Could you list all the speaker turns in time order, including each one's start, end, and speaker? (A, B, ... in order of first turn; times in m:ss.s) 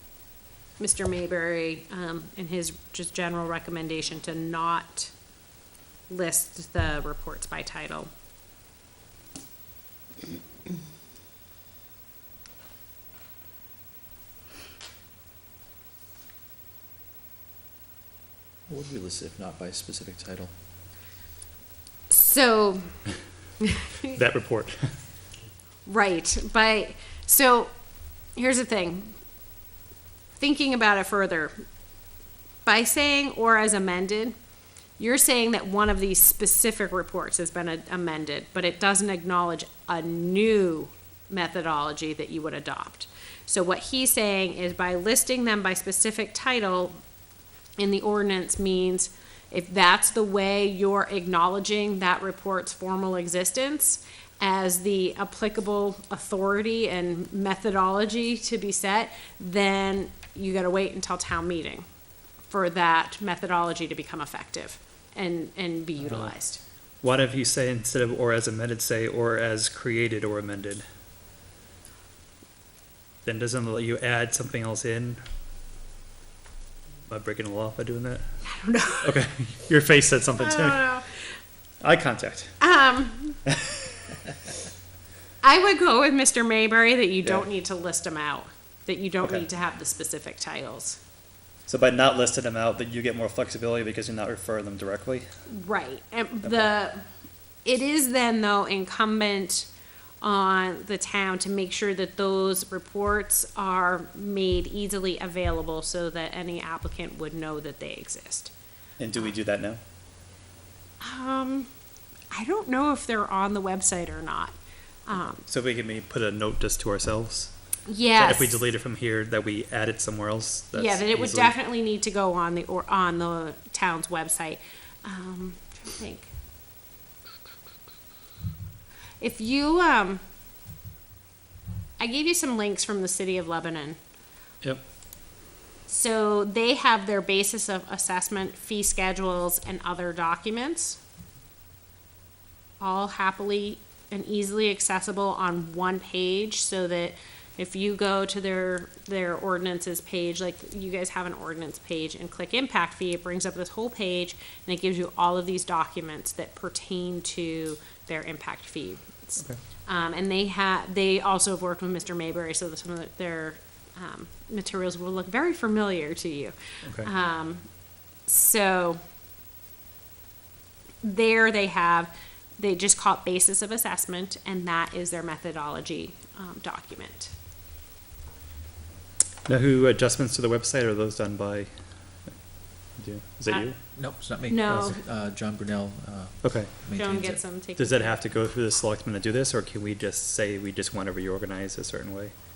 0:00.8-0:05.1 A
0:06.1-0:08.1 A
0:18.7-0:20.5 B
0:22.1-0:23.0 A
0:24.1-0:24.9 C
0:25.9-0:27.7 A
0:28.4-0:29.2 A
0:30.4-0:31.5 A
0:32.6-0:34.4 A
0:35.0-0:47.0 A
0:47.8-1:01.9 A
1:02.5-1:06.6 A
1:06.0-1:06.3 C
1:07.0-1:10.8 C
1:13.2-1:15.2 C
1:17.1-1:18.4 C
1:18.4-1:19.2 A
1:19.0-1:20.9 C
1:20.4-1:21.2 A
1:21.8-1:22.6 C
1:22.6-1:23.4 A
1:23.5-1:23.8 C
1:25.4-1:31.0 A
1:31.7-1:35.3 C
1:35.5-1:37.0 A
1:37.6-1:39.7 A
1:40.2-1:48.5 A
1:49.0-1:49.8 C
1:51.0-1:51.7 A
1:52.3-1:54.6 A
1:55.1-1:55.4 A
1:55.4-1:57.5 C
1:57.9-1:58.6 A
1:58.2-2:01.6 C
2:00.7-2:06.3 A
2:09.2-2:10.2 A
2:12.0-2:14.0 A
2:15.9-2:21.0 A
2:22.8-2:47.7 A
2:46.8-2:47.1 C
2:48.3-2:49.0 A
2:51.0-2:57.3 A
2:59.5-3:02.4 C
3:02.9-3:03.8 C
3:04.0-3:07.4 B
3:04.5-3:05.0 A
3:04.7-3:04.9 C
3:06.4-3:06.7 C
3:06.9-3:08.2 A
3:07.8-3:12.4 C